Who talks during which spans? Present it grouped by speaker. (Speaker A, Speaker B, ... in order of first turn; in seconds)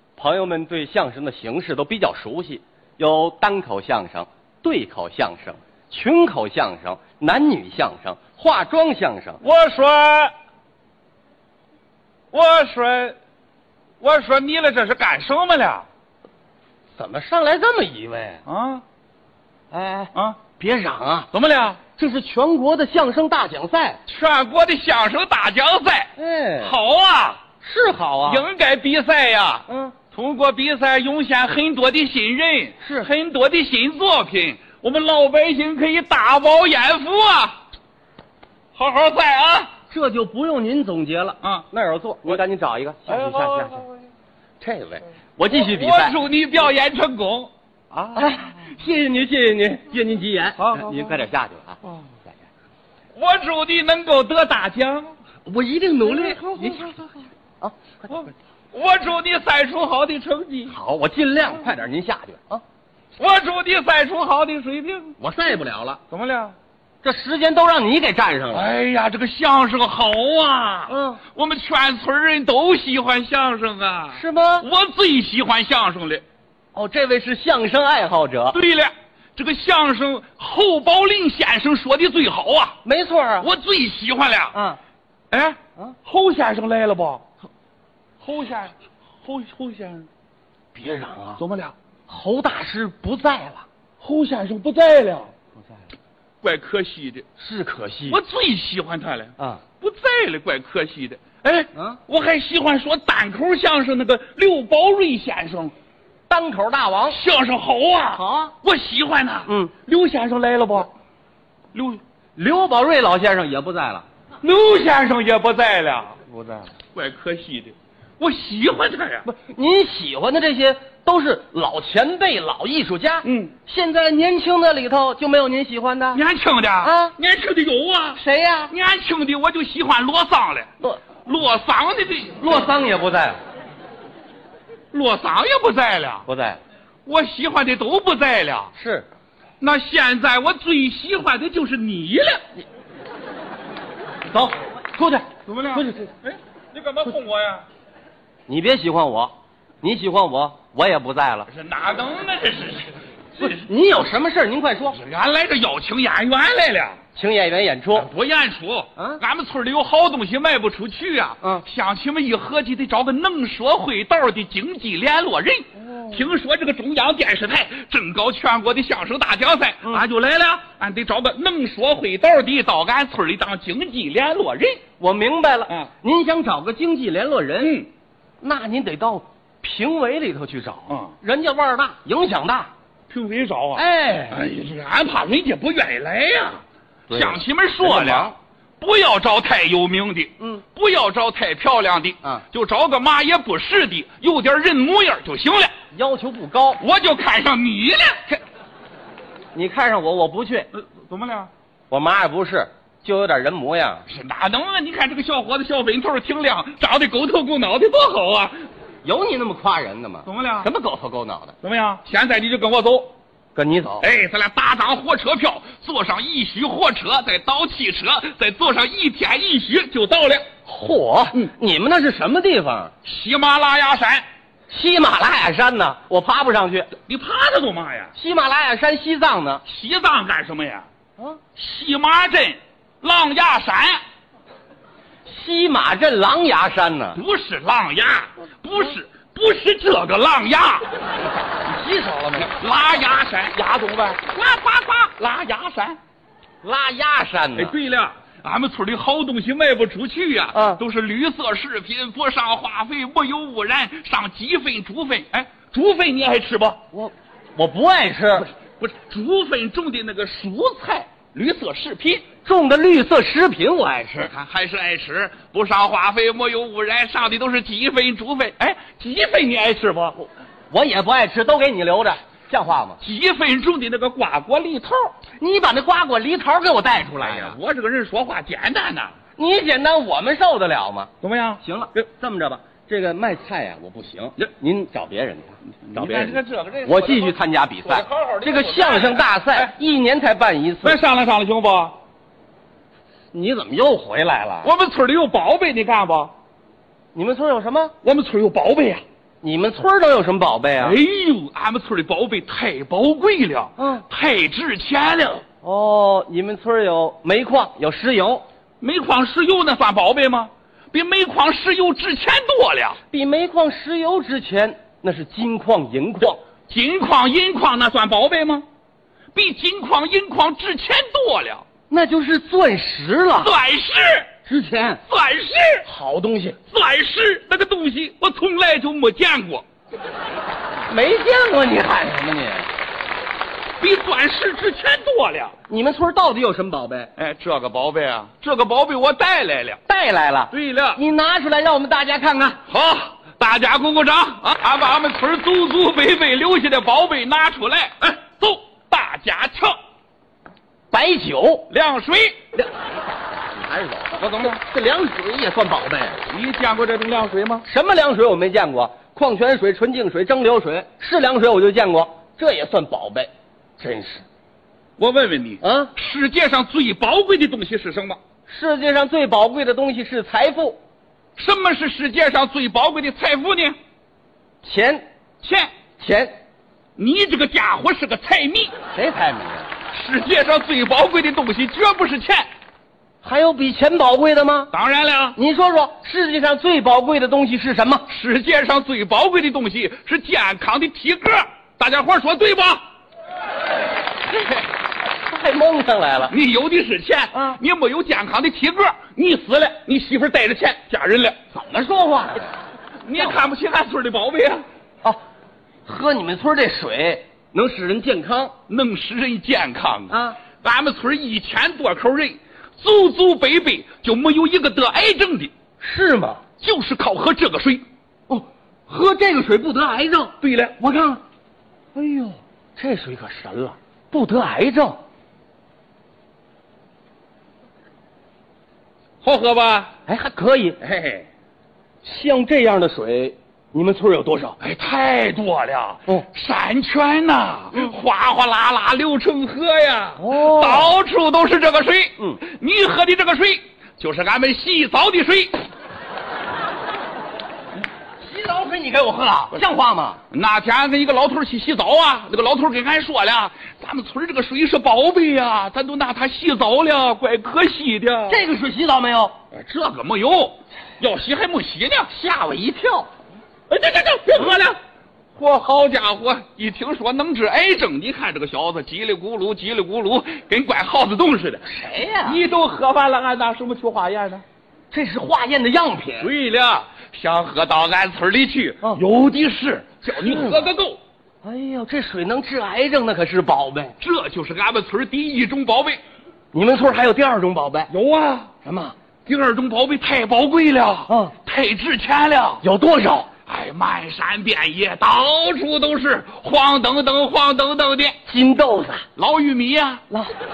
Speaker A: 0.2-9.4, 17.0-18.4, 19.7-21.3, 22.0-24.0, 26.2-26.8, 27.6-28.4, 29.7-29.9, 32.8-33.1, 39.9-43.9, 44.6-46.2, 48.1-51.8, 55.5-57.0, 57.6-58.2, 60.7-62.6, 65.2-66.0, 67.0-68.7, 70.9-71.2, 74.1-74.7, 76.8-78.6, 82.8-83.5, 84.5-84.8, 90.8-91.4, 92.1-93.7, 97.4-98.2, 101.7-102.0, 106.3-107.2, 108.2-108.5, 109.5-109.7, 112.4-114.1, 119.2-126.2, 126.8-127.2, 128.2-128.7, 132.4-133.4, 136.3-136.6, 138.8-139.1, 144.3-146.1, 148.5-151.5, 153.4-155.0, 157.2-158.1, 165.9-166.2, 175.0-177.8, 178.4-182.7, 183.8-184.4, 187.1-188.4, 195.9-196.8, 199.5-200.7, 201.9-204.1, 209.0-211.5, 213.6-214.1, 220.7-222.9, 224.7-226.9, 228.2-229.6, 235.2-237.2, 241.7-242.5, 246.6-247.8, 250.5-250.8, 256.9-258.5, 262.4-264.3, 270.7-273.0, 275.4-277.6, 279.4-281.1, 281.6-291.0, 293.3-294.7, 297.1-297.9, 299.4-301.0, 303.8-304.1, 305.6-308.4, 313.1-316.4, 321.9-323.5, 324.5-325.0, 325.9-326.6, 330.9-332.7, 335.7-337.1, 339.9-342.6, 350.9-351.7, 353.4-356.2, 357.6-364.2, 365.6-365.9, 368.5-370.8, 374.6-375.1, 376.0-376.4, 378.9-379.7, 383.2-384.7, 385.4-388.1, 394.3-396.4, 401.6-402.5, 405.9-408.5, 410.1-410.4, 415.8-416.4, 418.3-421.2, 421.9-425.0, 430.1-430.8, 432.0-434.6, 440.2-440.9, 448.2-450.2, 458.3-459.4, 462.1-463.1, 471.6-472.4, 474.9-476.3, 480.2-480.7, 481.4-483.9, 486.5-487.9, 488.7-488.9, 491.1-491.3, 492.6-493.3, 498.3-499.1, 500.1-500.4
Speaker B: 9.4-10.3, 12.3-13.2, 14.0-15.9, 18.5-18.8, 20.1-20.4, 21.3-21.8, 24.1-26.1, 26.6-27.4, 28.3-37.6, 38.8-39.7, 41.4-41.7, 43.1-43.9, 45.5-48.3, 50.6-51.1, 53.1-55.1, 56.1-57.0, 58.7-60.8, 63.2-65.2, 66.1-66.6, 68.5-76.2, 78.5-82.8, 83.4-84.5, 85.3-87.2, 88.2-90.1, 91.4-91.7, 94.0-95.3, 96.4-97.3, 98.1-105.7, 107.1-110.9, 111.7-112.0, 114.4-119.2, 123.2-123.5, 126.1-130.7, 131.2-132.7, 134.9-136.3, 137.1-138.7, 139.6-142.4, 145.5-147.7, 151.5-153.6, 154.9-157.0, 157.9-174.8, 183.1-195.7, 196.8-198.4, 200.7-201.5, 204.1-208.6, 210.3-210.7, 211.6-213.1, 214.0-220.5, 223.0-224.3, 227.1-228.1, 229.7-230.9, 231.6-234.0, 237.2-240.9, 242.4-246.0, 247.6-256.8, 258.4-262.2, 264.2-270.2, 273.0-275.1, 277.2-279.1, 281.2-281.6, 285.9-289.7, 290.8-292.0, 294.6-296.3, 298.0-299.0, 300.8-305.4, 308.8-313.0, 316.7-318.7, 319.3-321.6, 323.4-324.3, 325.1-325.9, 326.7-329.6, 333.8-335.6, 337.2-339.8, 340.5-341.0, 342.7-349.8, 351.7-352.4, 354.2-354.5, 356.3-357.6, 365.0-368.2, 371.4-373.8, 375.4-375.7, 377.0-378.7, 379.9-382.5, 384.7-385.4, 388.1-392.8, 396.3-401.4, 403.0-404.6, 408.7-415.5, 416.6-417.8, 420.4-420.8, 429.2-429.9, 430.8-431.3, 434.6-445.6, 450.3-458.4, 459.5-462.1, 463.7-464.8, 465.4-471.6, 472.3-474.4, 476.2-481.0, 484.0-486.0, 487.9-488.5, 489.3-492.6, 493.5-498.2, 499.2-500.0